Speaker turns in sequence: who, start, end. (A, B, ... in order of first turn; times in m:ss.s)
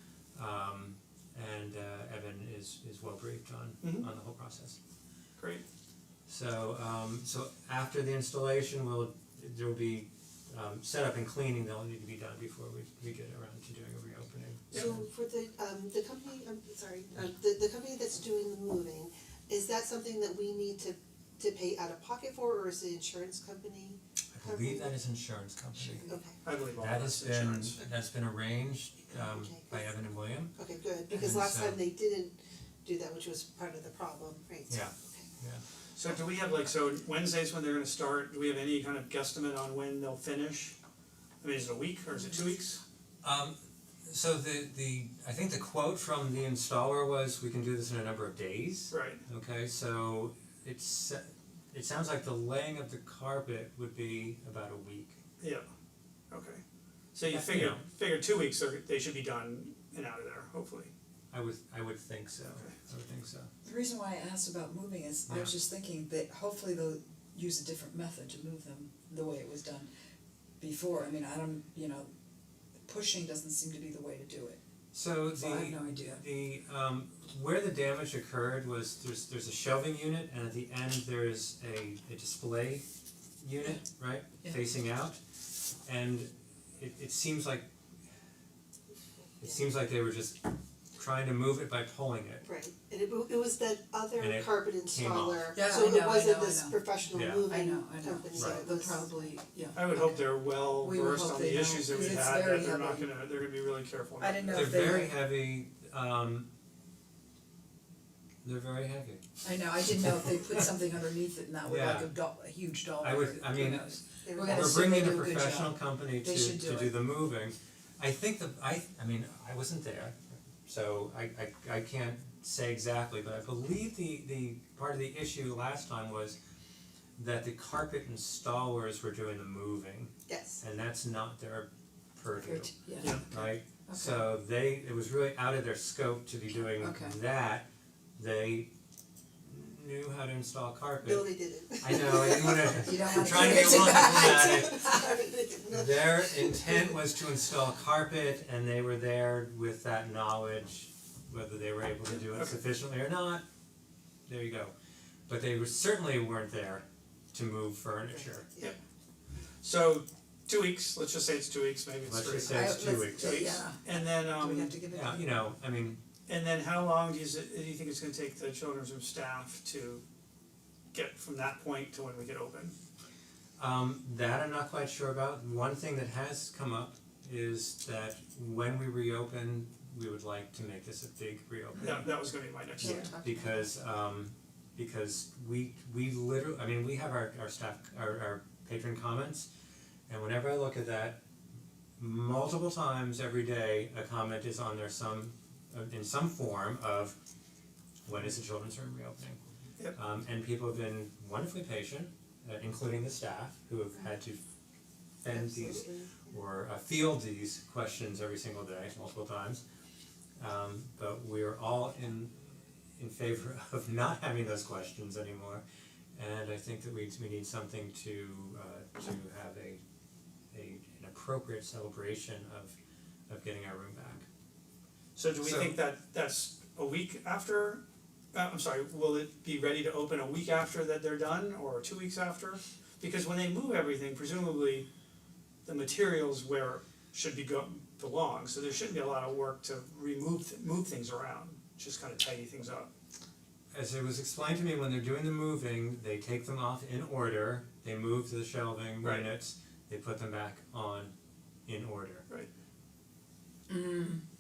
0:00.4-0:04.8 A
0:03.8-0:04.1 B
0:05.4-0:05.6 B
0:06.3-0:15.0 A
0:14.7-0:24.9 C
0:24.3-0:26.1 A
0:26.0-0:26.4 C
0:26.4-0:27.8 B
0:26.8-0:30.5 A
0:29.1-0:29.9 C
0:30.5-0:35.3 C
0:31.1-0:31.8 A
0:34.7-0:35.6 A
0:36.0-0:40.8 B
0:41.4-0:42.8 B
0:43.2-0:55.2 A
0:48.9-0:49.2 B
0:55.4-0:55.7 B
0:56.3-0:56.6 B
0:57.1-1:00.9 B
0:57.3-0:57.8 A
1:01.3-1:03.5 A
1:03.6-1:09.9 D
1:05.3-1:05.5 A
1:10.6-1:12.1 D
1:12.9-1:14.6 D
1:14.9-1:22.8 A
1:15.3-1:16.2 D
1:23.4-1:25.2 A
1:25.8-1:27.7 A
1:29.4-1:30.4 A
1:31.0-1:32.4 A
1:32.4-1:39.3 C
1:34.2-1:35.5 A
1:35.5-1:36.8 D
1:37.1-1:37.5 A
1:37.4-1:43.1 D
1:38.4-1:38.7 A
1:39.8-1:45.0 B
1:44.2-1:45.2 D
1:44.5-1:46.5 A
1:48.4-1:49.2 A
1:49.4-1:57.0 D
1:51.6-1:52.1 A
1:53.0-2:06.4 A
1:54.2-1:55.1 C
2:07.2-2:12.7 A
2:10.3-2:10.6 C
2:12.4-2:13.2 D
2:13.0-2:13.5 B
2:13.3-2:17.7 A
2:13.9-2:14.3 D
2:16.8-2:17.2 D
2:18.2-2:18.7 A
2:19.4-2:24.9 A
2:21.0-2:27.0 C
2:22.6-2:24.9 D
2:25.7-2:33.4 A
2:34.3-2:34.7 A
2:35.3-2:38.5 A
2:38.1-2:38.8 C
2:39.6-2:44.8 B
2:42.1-2:43.6 A
2:42.5-2:45.3 D
2:44.9-2:46.0 A
2:46.3-2:50.0 B
2:50.9-2:52.8 B
2:53.6-3:02.1 A
3:01.8-3:03.1 B
3:02.8-3:03.7 D
3:02.8-3:09.5 A
3:10.1-3:11.2 A
3:12.0-3:17.2 A
3:18.1-3:19.4 A
3:19.9-3:24.4 A
3:25.2-3:29.6 A
3:25.3-3:26.3 C
3:30.4-3:32.4 A
3:33.0-3:35.6 A
3:36.2-3:39.8 A
3:40.5-3:42.8 A
3:43.3-3:44.3 A
3:45.2-3:47.8 B
3:45.4-3:45.8 A
3:48.3-3:54.9 B
3:55.6-4:02.9 B
4:03.7-4:11.1 A
4:09.0-4:09.3 B
4:11.7-4:12.3 A
4:13.7-4:14.2 D